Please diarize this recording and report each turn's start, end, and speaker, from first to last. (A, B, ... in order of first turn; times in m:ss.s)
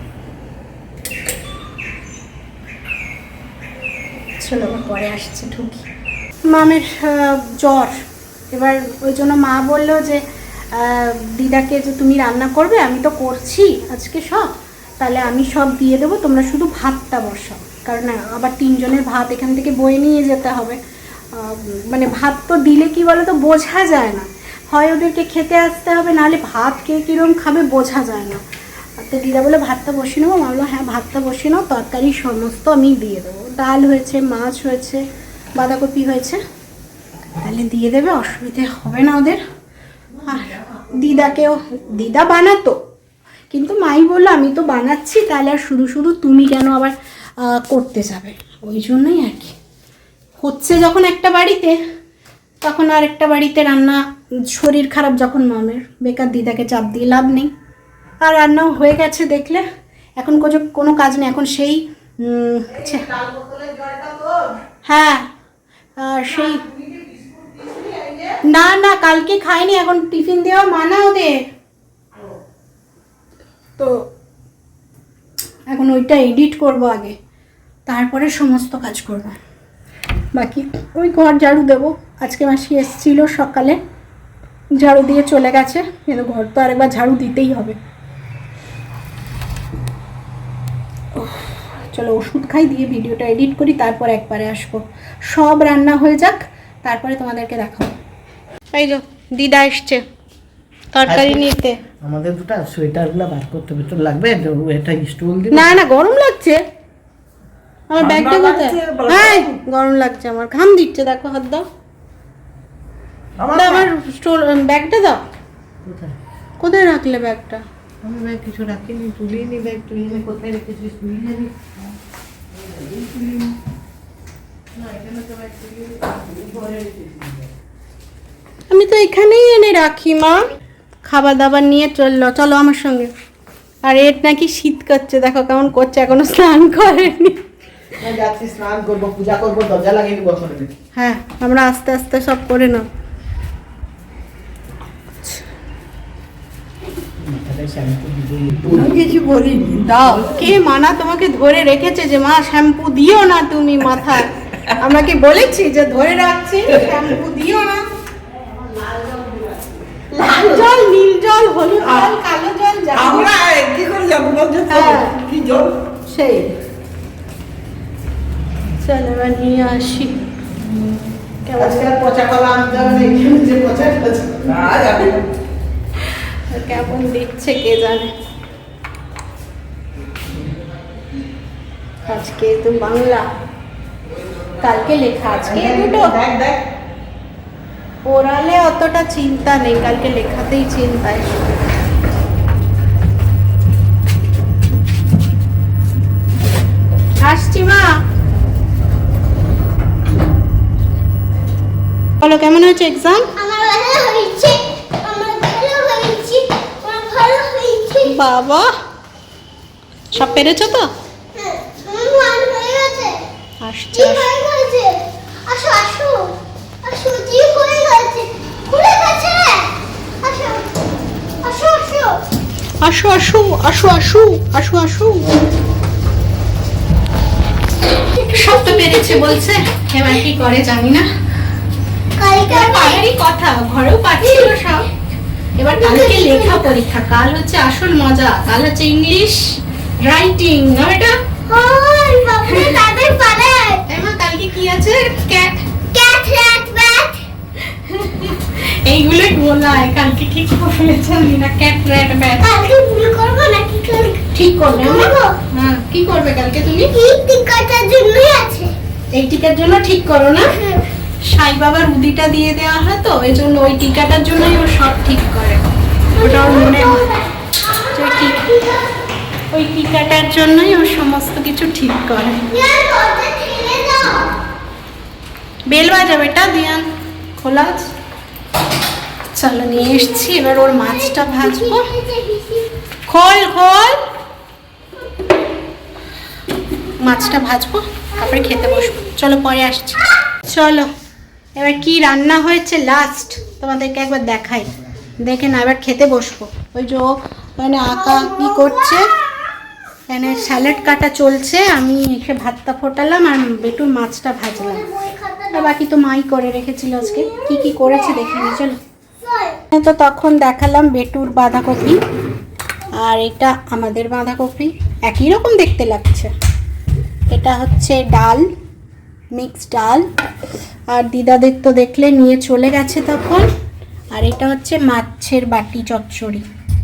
0:04.4-0:05.8 A
0:06.5-0:10.2 A
0:10.7-0:20.8 A
0:21.3-0:28.4 A
0:29.0-0:35.0 A
0:35.6-0:36.4 A
0:37.4-0:39.4 A
0:40.2-0:42.8 A
0:43.5-0:49.6 A
0:50.4-0:51.8 A
0:52.6-0:57.5 A
0:58.2-0:59.6 A
1:00.2-1:03.1 A
1:02.8-1:04.6 B
1:04.9-1:05.3 A
1:06.0-1:06.6 A
1:06.7-1:08.4 B
1:08.4-1:11.4 A
1:13.8-1:14.0 A
1:15.7-1:17.2 A
1:17.9-1:19.4 A
1:20.4-1:23.8 A
1:24.8-1:27.8 A
1:31.2-1:38.0 A
1:38.7-1:40.0 A
1:40.9-1:41.8 A
1:41.1-1:41.4 B
1:42.0-1:45.8 B
1:45.5-1:46.6 A
1:47.9-1:51.7 A
1:48.0-1:49.6 B
1:53.4-1:53.9 B
1:53.6-1:55.2 A
1:55.8-1:56.2 B
1:56.6-1:57.6 A
1:58.0-2:01.7 B
2:02.6-2:03.6 B
2:04.8-2:07.5 B
2:08.7-2:10.5 A
2:11.1-2:13.1 A
2:13.8-2:17.4 A
2:18.0-2:20.7 B
2:20.9-2:22.9 A
2:27.2-2:30.4 B
2:29.8-2:37.8 A
2:38.6-2:40.7 B
2:40.1-2:43.3 A
2:41.8-2:42.1 B
2:42.9-2:45.8 B
2:44.7-2:45.2 A
2:46.1-2:46.5 A
2:48.8-2:50.2 A
2:51.4-2:52.0 A
2:51.6-2:55.2 B
2:56.5-2:58.1 A
3:02.1-3:03.3 A
3:04.6-3:06.2 A
3:05.4-3:06.6 B
3:08.1-3:11.4 A
3:17.2-3:18.0 A
3:22.2-3:23.3 A
3:23.4-3:28.2 C
3:28.0-3:28.7 A
3:30.1-3:30.9 A
3:31.3-3:33.2 C
3:33.6-3:34.3 A
3:33.9-3:36.3 C
3:36.8-3:39.7 C
3:40.2-3:40.7 C
3:41.4-3:42.2 C
3:42.8-3:45.3 A
3:48.0-3:49.4 C
3:48.3-3:51.1 A
3:52.2-3:53.0 C
3:52.4-3:54.9 A
3:54.2-3:54.5 C
3:55.6-4:01.2 A
3:55.8-3:56.7 C
4:01.5-4:03.8 C
4:02.4-4:02.8 A
4:03.9-4:05.7 A
4:05.9-4:07.2 C
4:07.7-4:12.5 A
4:12.4-4:15.4 C
4:14.3-4:16.9 A
4:16.9-4:18.7 C
4:19.2-4:20.5 A
4:20.5-4:20.8 C
4:21.3-4:27.1 A
4:26.2-4:28.9 C
4:27.9-4:28.5 A
4:29.5-4:32.5 A
4:32.5-4:34.3 C
4:35.7-4:37.9 A
4:39.3-4:41.9 A
4:40.6-4:42.7 C
4:43.1-4:44.1 A
4:47.0-4:50.9 A
4:48.3-4:48.9 C
4:51.6-4:59.1 A
4:58.0-4:59.0 C
5:00.1-5:04.8 A
5:04.6-5:05.8 C
5:05.5-5:08.8 A
5:07.2-5:08.6 C
5:09.2-5:09.6 C
5:09.7-5:12.0 A
5:13.0-5:16.3 A
5:17.3-5:18.5 A
5:19.3-5:20.1 A
5:20.9-5:23.5 A
5:24.1-5:26.5 A